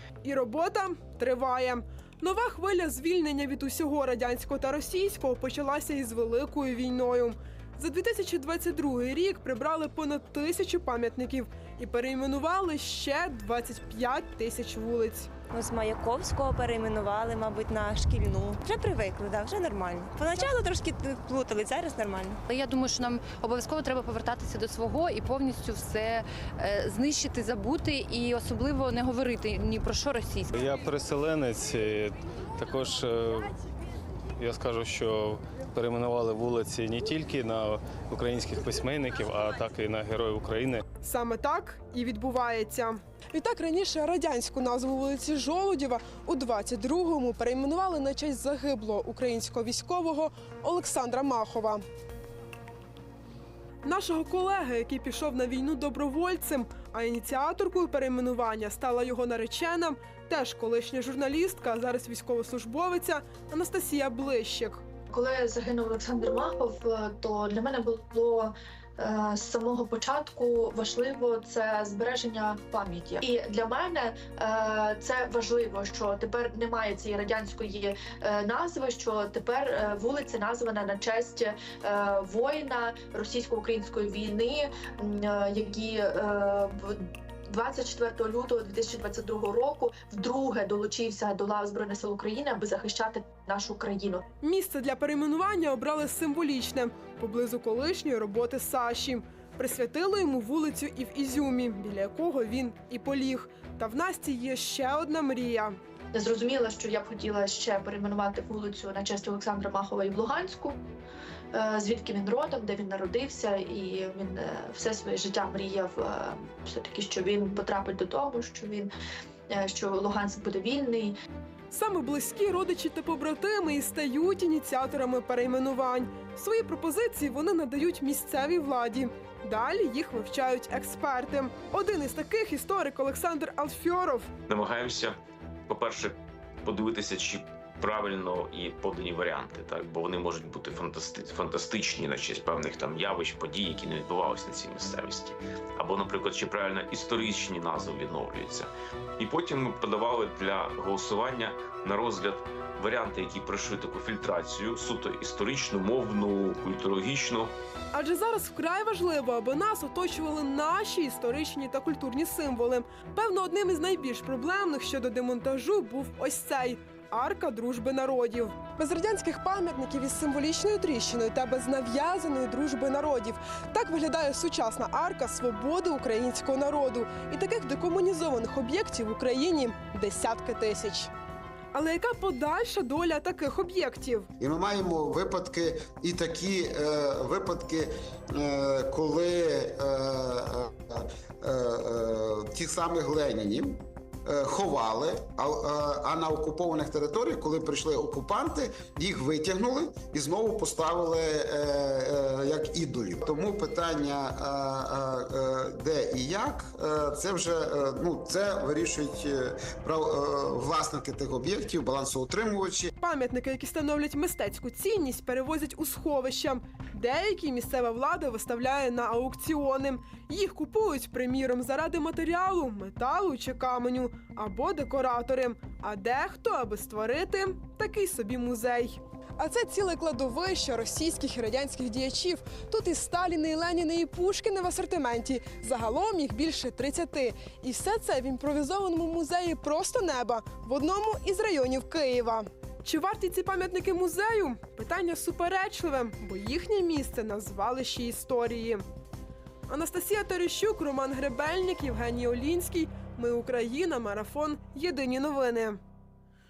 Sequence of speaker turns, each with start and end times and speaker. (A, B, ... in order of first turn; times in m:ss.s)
0:00.2-0:15.3 A
0:15.5-0:22.4 B
0:22.5-0:30.6 C
0:30.5-0:33.6 D
0:34.4-0:40.8 D
0:41.0-0:51.8 A
0:53.8-1:04.8 A
1:05.1-1:34.2 E
1:34.4-1:45.8 A
1:46.1-1:50.8 E
1:51.5-1:58.9 E
1:59.5-2:01.2 E
2:01.7-2:14.3 A
2:14.5-2:15.2 F
2:15.7-2:37.6 F
2:37.9-3:01.1 A
3:01.7-3:04.3 A
3:04.4-3:32.9 G
3:33.0-4:08.8 A
4:09.7-4:15.8 A